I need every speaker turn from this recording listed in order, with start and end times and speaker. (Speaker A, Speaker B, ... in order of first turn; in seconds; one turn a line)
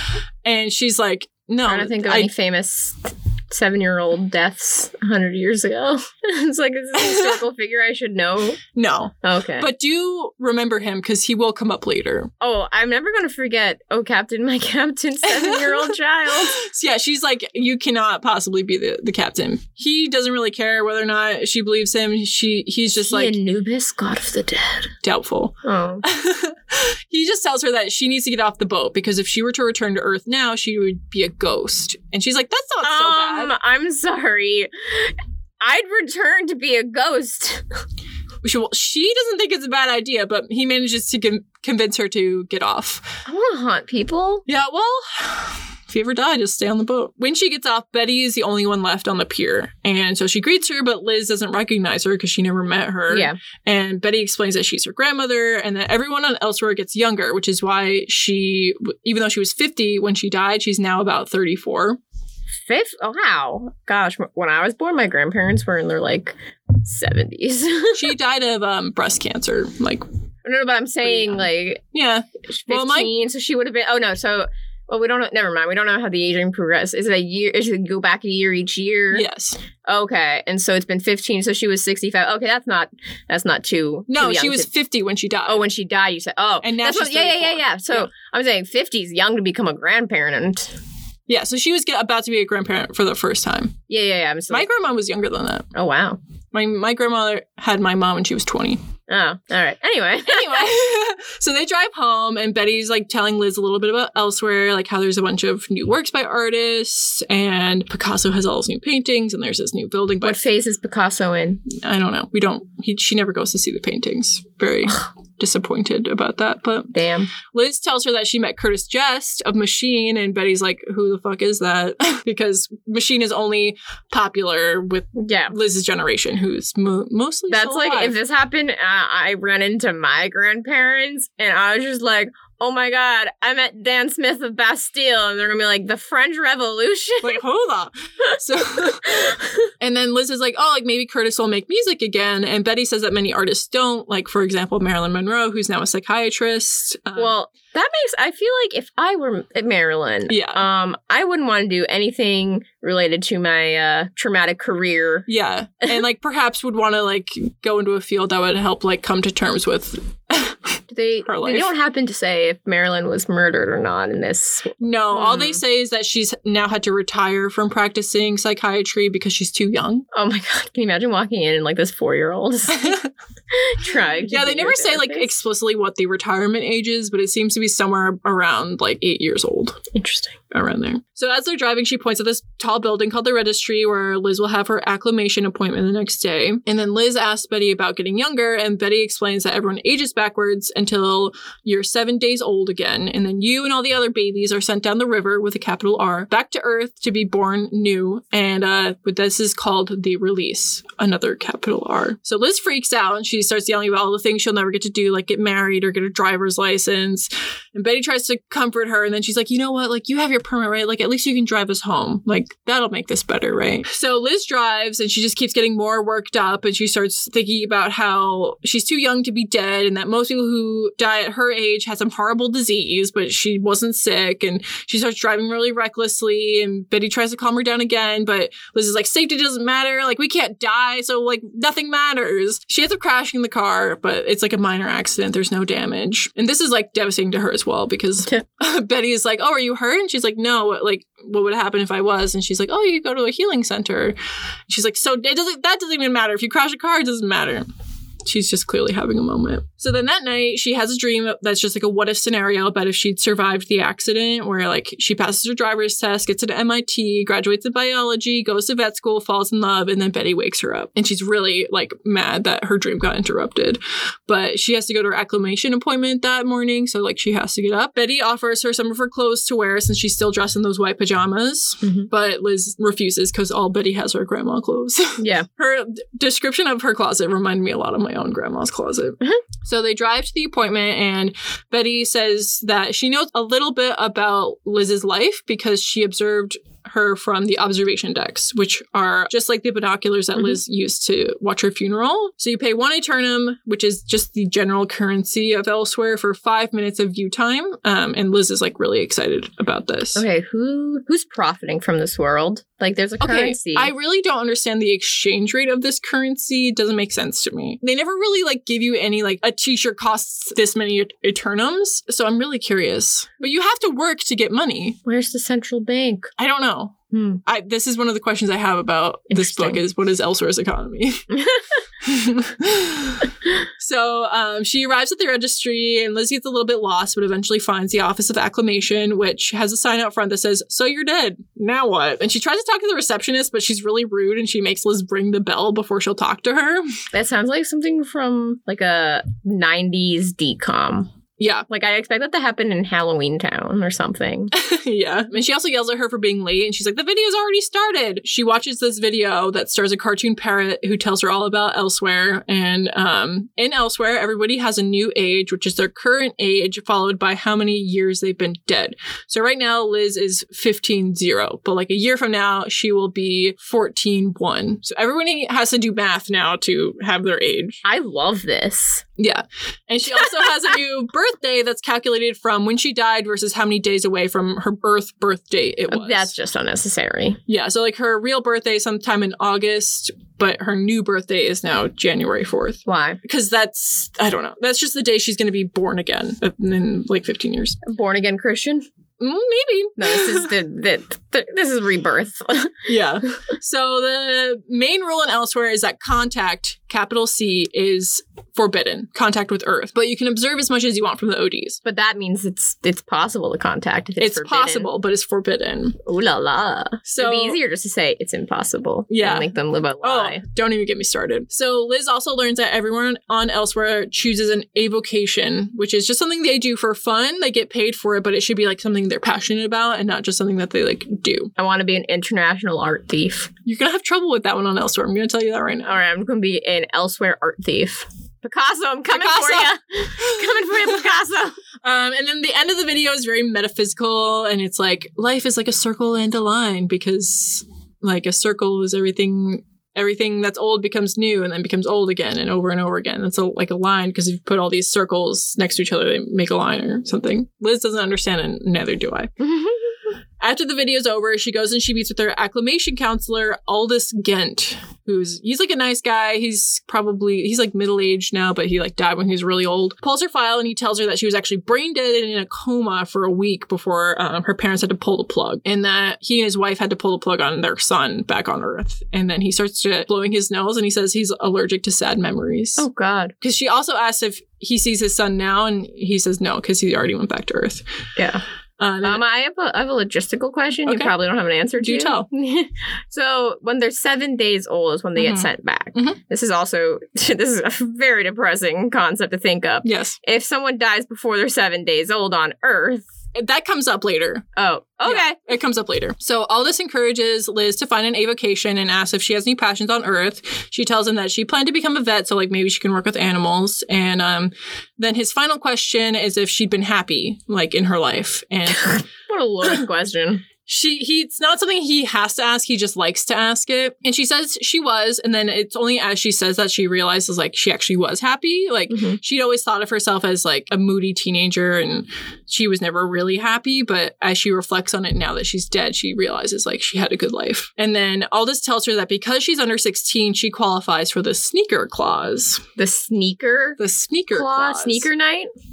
Speaker A: 0.4-2.3
Speaker B: 1.7-8.6
Speaker A: 6.9-7.4
Speaker A: 8.7-12.3
Speaker B: 9.2-9.7
Speaker B: 12.4-16.6
Speaker A: 15.2-23.3
Speaker B: 23.1-24.9
Speaker A: 25.0-33.5
Speaker B: 25.6-26.0
Speaker B: 32.8-37.6
Speaker A: 38.4-43.2
Speaker B: 43.2-44.4
Speaker A: 44.5-62.0
Speaker B: 53.1-53.4
Speaker B: 62.7-68.1
Speaker A: 67.9-70.0
Speaker B: 70.4-71.8
Speaker A: 71.0-71.4
Speaker A: 71.9-73.1
Speaker B: 72.5-79.2
Speaker A: 79.1-79.6
Speaker B: 79.8-84.7
Speaker A: 84.1-85.6
Speaker B: 85.5-90.8
Speaker A: 86.6-88.1
Speaker A: 91.3-93.8
Speaker B: 93.9-94.7
Speaker A: 94.5-95.7
Speaker B: 95.7-96.2
Speaker A: 96.5-98.8
Speaker B: 99.1-100.7
Speaker A: 100.3-110.4
Speaker B: 110.2-111.6
Speaker A: 111.7-116.9
Speaker B: 116.9-117.3
Speaker A: 117.5-128.2
Speaker B: 125.1-125.5
Speaker B: 127.5-137.4
Speaker A: 137.2-147.3
Speaker B: 138.9-139.7
Speaker B: 147.2-155.3
Speaker A: 150.3-150.6
Speaker A: 155.3-161.7
Speaker B: 160.9-165.6
Speaker A: 164.8-170.1
Speaker B: 170.1-173.0
Speaker A: 172.7-173.1
Speaker B: 173.5-175.3
Speaker A: 173.9-179.8
Speaker B: 179.9-180.3
Speaker A: 180.5-244.2
Speaker A: 244.7-247.7
Speaker A: 248.2-300.2
Speaker B: 271.8-272.1
Speaker B: 275.2-275.5
Speaker B: 300.1-303.9
Speaker A: 303.2-315.0
Speaker B: 315.0-316.3
Speaker A: 316.4-321.3
Speaker B: 317.1-317.4
Speaker B: 319.3-319.8
Speaker B: 321.3-321.8
Speaker A: 322.0-336.8
Speaker B: 337.1-341.1
Speaker A: 341.4-341.6
Speaker B: 341.7-344.5
Speaker A: 344.5-367.8
Speaker B: 367.8-369.0
Speaker A: 369.2-376.3
Speaker B: 375.9-377.4
Speaker A: 377.5-387.8
Speaker B: 382.9-383.2
Speaker B: 387.8-388.9
Speaker A: 389.2-390.5
Speaker B: 390.0-392.9
Speaker A: 392.9-401.8
Speaker B: 401.8-404.9
Speaker A: 404.2-406.0
Speaker B: 406.0-410.4
Speaker A: 407.1-407.6
Speaker A: 409.1-409.5
Speaker A: 410.0-421.5
Speaker B: 421.6-423.5
Speaker A: 423.6-426.0
Speaker B: 425.9-431.6
Speaker A: 429.1-431.1
Speaker A: 431.8-449.3
Speaker B: 449.4-450.0
Speaker A: 450.4-472.8
Speaker B: 472.8-473.3
Speaker A: 473.4-477.8
Speaker B: 478.1-478.4
Speaker A: 478.8-479.2
Speaker B: 479.0-493.1
Speaker A: 480.9-481.1
Speaker A: 481.8-482.3
Speaker A: 485.1-486.2
Speaker A: 489.8-490.1
Speaker A: 493.3-494.4
Speaker B: 494.6-495.4
Speaker A: 495.0-509.0
Speaker B: 508.9-510.4
Speaker A: 510.6-532.6
Speaker B: 518.9-519.2
Speaker B: 532.8-533.8
Speaker A: 533.8-535.1
Speaker B: 534.3-535.5